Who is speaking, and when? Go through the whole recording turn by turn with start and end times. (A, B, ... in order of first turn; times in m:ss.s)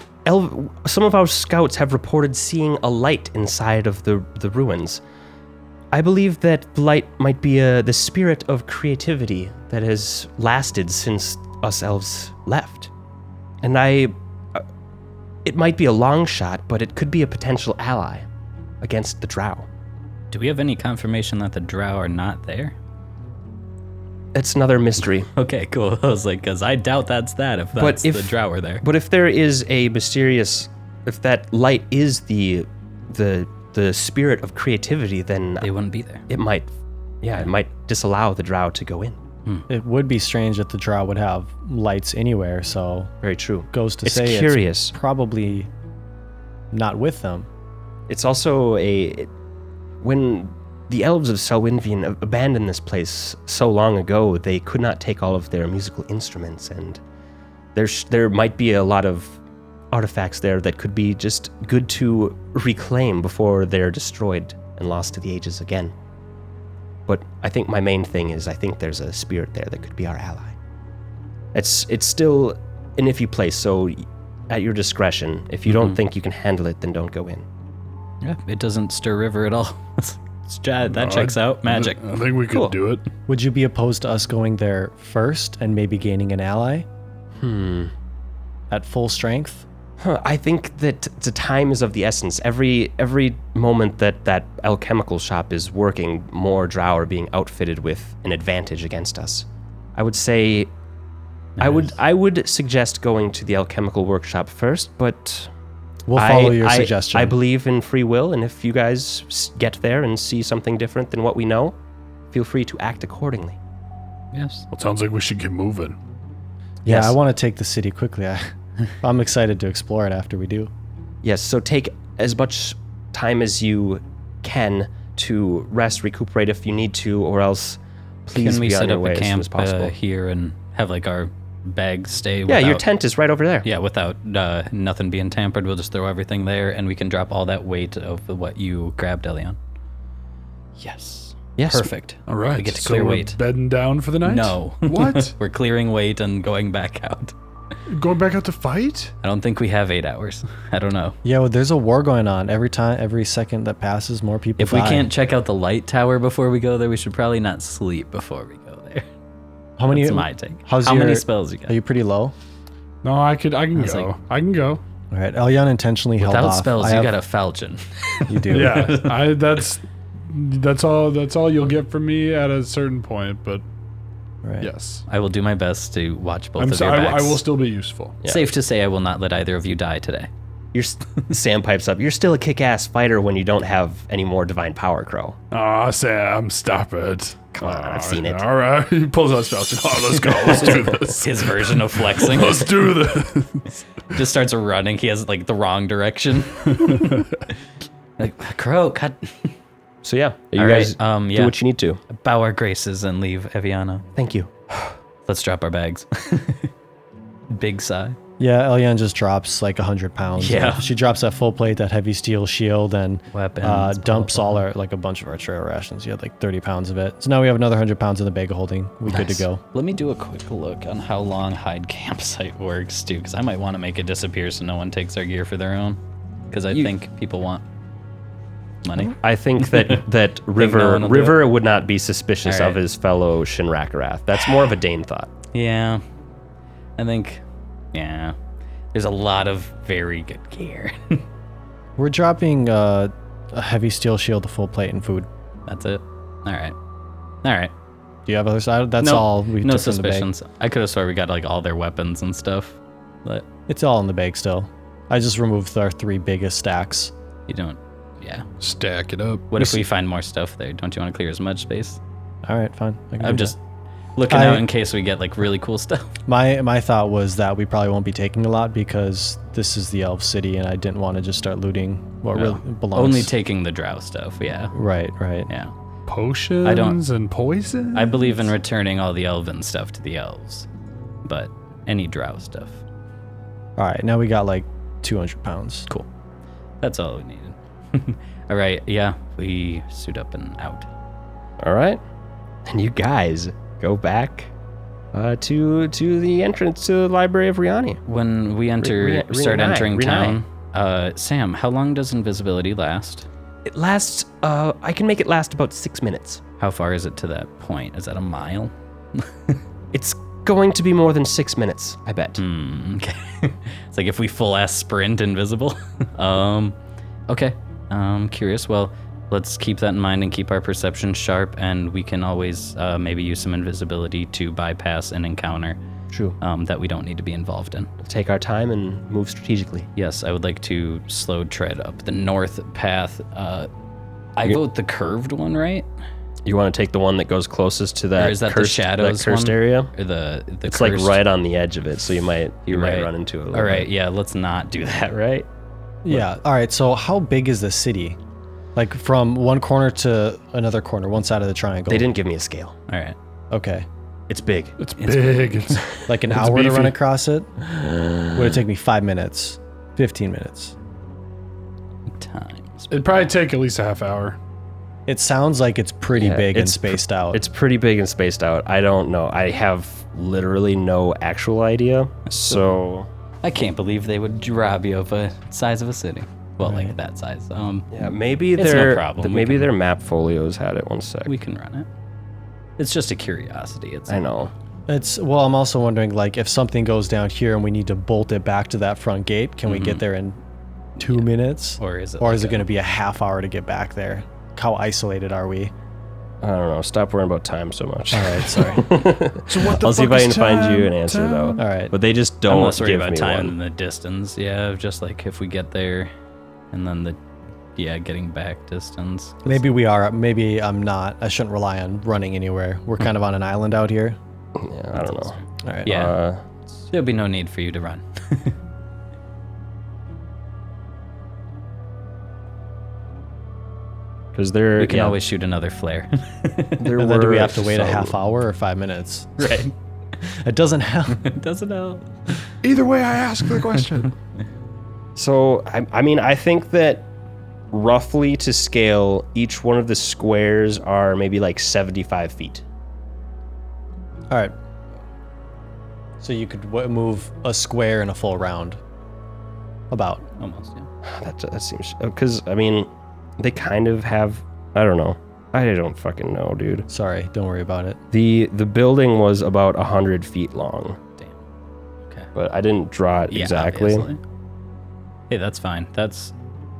0:00.2-0:05.0 A
0:05.9-0:12.9 A
0:13.6-0:14.6 A
0:15.4-0:18.2 A
0:18.8-0:19.7 A
0:20.3-0:22.8 B
0:24.3-0:25.3 A
0:25.3-0:28.8 B
0:27.7-0:35.7 A
0:35.6-0:36.3 B
0:36.3-0:36.7 A
0:37.2-0:39.2 A
0:39.7-0:43.1 C
0:43.2-0:44.9 A
0:43.7-0:45.7 C
0:46.7-0:47.5 C
0:48.1-0:49.3 A
0:50.0-0:57.0 A
0:57.7-0:59.4 A
0:59.9-1:05.9 A
1:07.1-1:10.6 A
1:11.5-1:17.4 A
1:18.2-1:22.0 B
1:20.9-1:23.0 D
1:22.5-1:22.8 A
1:23.3-1:26.8 C
1:27.4-1:27.9 A
1:28.7-1:29.6 C
1:30.0-1:40.7 A
1:41.6-1:41.9 B
1:41.6-1:45.5 A
1:46.1-1:47.4 C
1:46.1-1:51.8 A
1:52.3-1:53.6 A
1:54.3-1:54.6 B
1:54.7-1:56.0 D
1:56.8-2:00.7 C
1:56.8-1:57.2 A
2:01.2-2:09.9 A
2:08.3-2:12.8 B
2:12.5-2:13.6 A
2:13.6-2:19.6 B
2:20.8-2:23.4 B
2:21.6-2:21.9 A
2:22.3-2:25.4 D
2:24.2-2:27.3 B
2:27.9-2:29.1 D
2:29.2-2:31.2 B
2:31.2-2:35.1 C
2:34.6-2:39.0 B
2:39.8-2:42.3 C
2:39.9-2:41.8 B
2:43.0-2:44.8 D
2:43.7-2:44.1 B
2:45.1-2:47.1 C
2:46.2-2:49.3 B
2:48.3-2:48.9 C
2:48.5-2:53.6 D
2:54.4-2:54.7 C
2:54.6-2:55.0 D
2:55.0-2:57.4 B
2:56.6-2:58.2 D
2:58.2-3:00.3 B
3:00.7-3:05.4 A
3:05.5-3:13.7 D
3:07.6-3:08.4 A
3:10.5-3:11.0 A
3:11.0-3:12.7 B
3:14.1-3:17.2 B
3:16.7-3:17.2 D
3:18.2-3:19.5 B
3:20.0-3:22.0 A
3:20.6-3:21.6 B
3:22.1-3:24.0 B
3:24.2-3:24.9 A
3:25.2-3:26.7 B
3:27.5-3:28.2 B
3:28.4-3:39.6 C
3:30.4-3:30.9 B
3:33.3-3:34.6 B
3:39.1-3:46.0 B
3:46.5-3:47.6 B
3:48.8-3:50.0 B
3:49.1-3:55.3 A
3:50.6-3:51.5 B
3:52.4-3:52.8 B
3:55.5-3:56.0 B
3:57.0-3:58.4 B
3:58.9-4:01.2 B
4:02.0-4:05.3 C
4:05.7-4:06.8 B
4:07.4-4:07.7 B
4:08.2-4:10.3 C
4:09.0-4:13.4 B
4:13.7-4:17.1 C
4:17.5-4:18.4 B
4:18.6-4:19.5 D
4:19.5-4:22.0 B
4:22.4-4:23.5 C
4:23.2-4:23.5 B
4:24.2-4:26.1 B
4:24.3-4:24.6 C
4:26.3-4:33.3 C
4:32.3-4:34.7 B
4:34.7-4:35.5 C
4:35.5-4:35.7 B
4:36.1-4:38.5 D
4:36.6-4:37.0 B
4:37.9-4:40.7 B
4:41.2-4:42.8 B
4:43.8-4:45.9 C
4:46.8-4:50.9 B
4:51.6-4:52.0 A
4:52.6-4:54.5 A
4:55.1-4:58.0 A
4:58.0-5:03.3 B
4:58.8-5:00.4 A
5:03.6-5:06.4 A
5:06.6-5:09.6 B
5:09.9-5:12.4 A
5:12.4-5:16.8 B
5:17.3-5:25.8 B
5:26.1-5:26.4 A
5:26.4-5:27.9 B
5:28.0-5:29.9 A
5:30.0-5:33.7 B
5:34.4-5:35.9 B
5:36.4-5:39.9 A
5:38.2-5:41.2 B
5:40.6-5:43.9 A
5:42.7-5:45.4 B
5:46.0-5:48.2 C
5:48.7-5:52.1 C
5:51.9-5:52.8 A
5:52.9-5:53.2 B
5:53.5-5:53.8 C
5:54.3-5:54.8 A
5:54.8-5:57.0 D
5:55.0-5:55.8 B
5:56.1-5:57.6 C
5:57.8-5:58.6 A
5:58.3-6:00.7 C
6:02.1-6:03.3 B
6:02.9-6:04.4 D
6:05.1-6:07.4 C
6:06.1-6:13.1 A
6:12.3-6:12.6 B
6:13.4-6:19.7 B
6:16.6-6:16.9 C
6:17.9-6:21.3 A
6:21.2-6:21.9 B
6:22.8-6:24.2 B
6:24.1-6:24.5 A
6:24.9-6:30.4 C
6:29.6-6:30.0 B
6:31.0-6:35.7 C
6:31.8-6:32.6 B
6:36.4-6:43.6 A
6:38.1-6:39.0 C
6:39.5-6:41.6 D
6:41.6-6:41.9 C
6:42.5-6:46.1 B
6:46.7-6:47.2 B
6:47.8-6:49.6 B
6:49.4-6:54.2 C
6:54.5-6:56.4 A
6:55.0-6:56.2 B
6:55.6-6:56.0 C
6:56.9-6:58.5 B
7:04.3-7:05.2 A
7:04.8-7:06.9 B
7:06.8-7:08.1 A
7:07.0-7:09.6 C
7:09.4-7:09.6 A
7:10.2-7:11.3 C
7:11.1-7:12.4 B
7:12.6-7:14.1 D
7:15.2-7:17.1 A
7:17.7-7:22.6 A
7:26.2-7:28.8 C
7:29.9-7:30.2 C
7:30.4-7:30.9 B
7:31.0-7:36.8 A
7:36.9-7:38.0 C
7:38.1-7:41.0 A
7:42.3-7:44.1 A
7:43.3-7:44.2 B
7:45.3-7:46.3 B